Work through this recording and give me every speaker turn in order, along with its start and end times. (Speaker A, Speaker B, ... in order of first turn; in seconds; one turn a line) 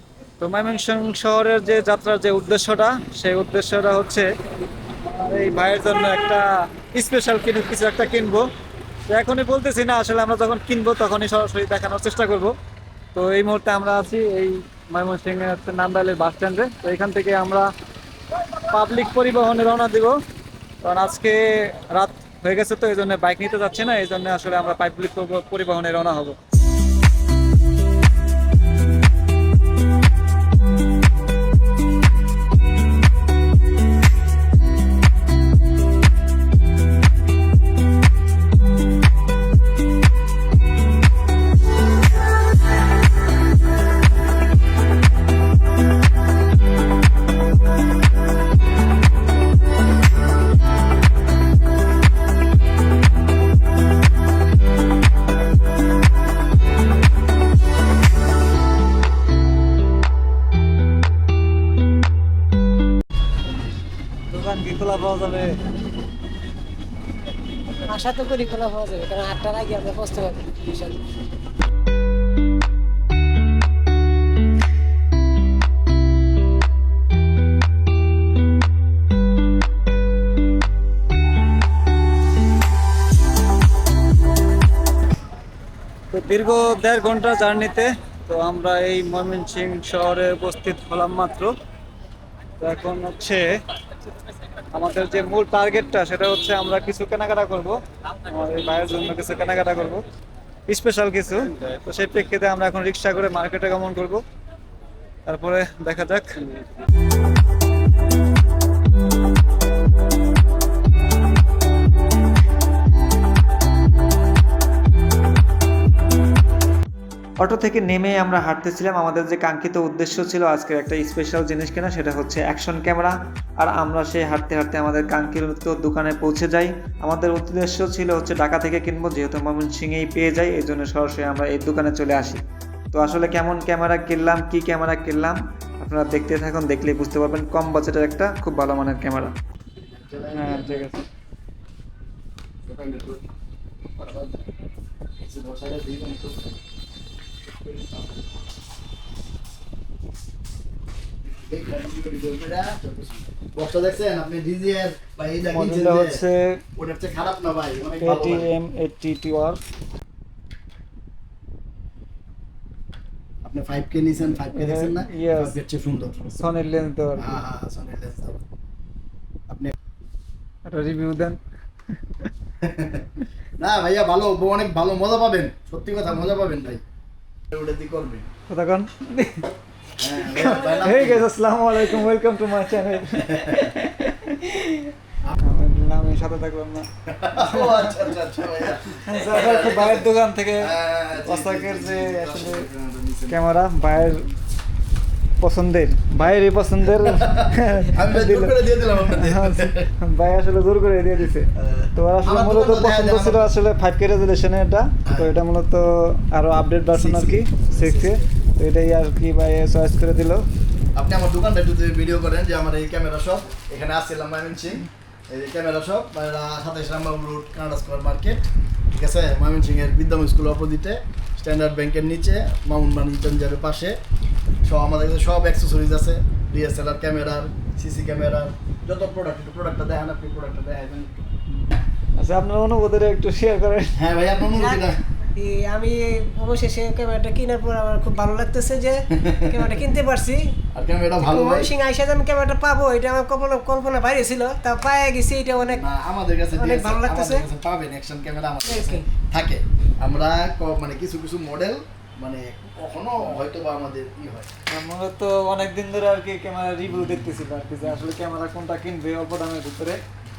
Speaker A: 0.4-4.3
Speaker A: 5.0-8.5
Speaker A: 9.1-12.5
Speaker A: 13.1-17.7
Speaker A: 18.7-20.2
Speaker A: 20.8-26.4
Speaker A: 64.3-65.6
Speaker B: 67.8-71.0
Speaker A: 86.1-91.5
Speaker A: 92.6-93.6
Speaker A: 94.7-100.0
Speaker A: 100.7-104.2
Speaker A: 105.3-106.6
Speaker A: 117.4-132.4
Speaker A: 132.9-139.3
Speaker C: 139.8-140.9
Speaker A: 140.3-141.1
Speaker C: 142.7-143.2
Speaker C: 144.0-144.5
Speaker C: 145.2-146.6
Speaker C: 147.5-148.3
Speaker C: 151.3-156.2
Speaker A: 155.5-156.6
Speaker C: 156.8-158.5
Speaker A: 158.0-159.6
Speaker C: 163.4-166.4
Speaker A: 164.5-165.6
Speaker A: 166.4-167.4
Speaker C: 167.2-168.4
Speaker A: 170.7-171.4
Speaker C: 172.6-176.8
Speaker C: 177.5-178.3
Speaker A: 178.5-179.5
Speaker C: 180.0-181.3
Speaker A: 180.3-188.0
Speaker B: 180.4-180.9
Speaker C: 183.2-183.8
Speaker C: 187.1-194.1
Speaker A: 188.9-192.7
Speaker A: 193.3-194.3
Speaker A: 195.4-210.4
Speaker C: 196.2-199.9
Speaker C: 201.6-203.5
Speaker C: 205.1-205.4
Speaker C: 206.9-208.3
Speaker C: 210.9-218.4
Speaker C: 218.9-224.0
Speaker C: 224.6-231.3
Speaker A: 232.2-234.0
Speaker C: 233.9-235.0
Speaker B: 234.6-240.5
Speaker C: 239.1-239.7
Speaker C: 240.7-241.7
Speaker B: 241.2-245.8
Speaker C: 245.6-254.5
Speaker B: 246.5-247.4
Speaker B: 248.7-249.1
Speaker A: 254.7-260.0
Speaker C: 257.1-257.4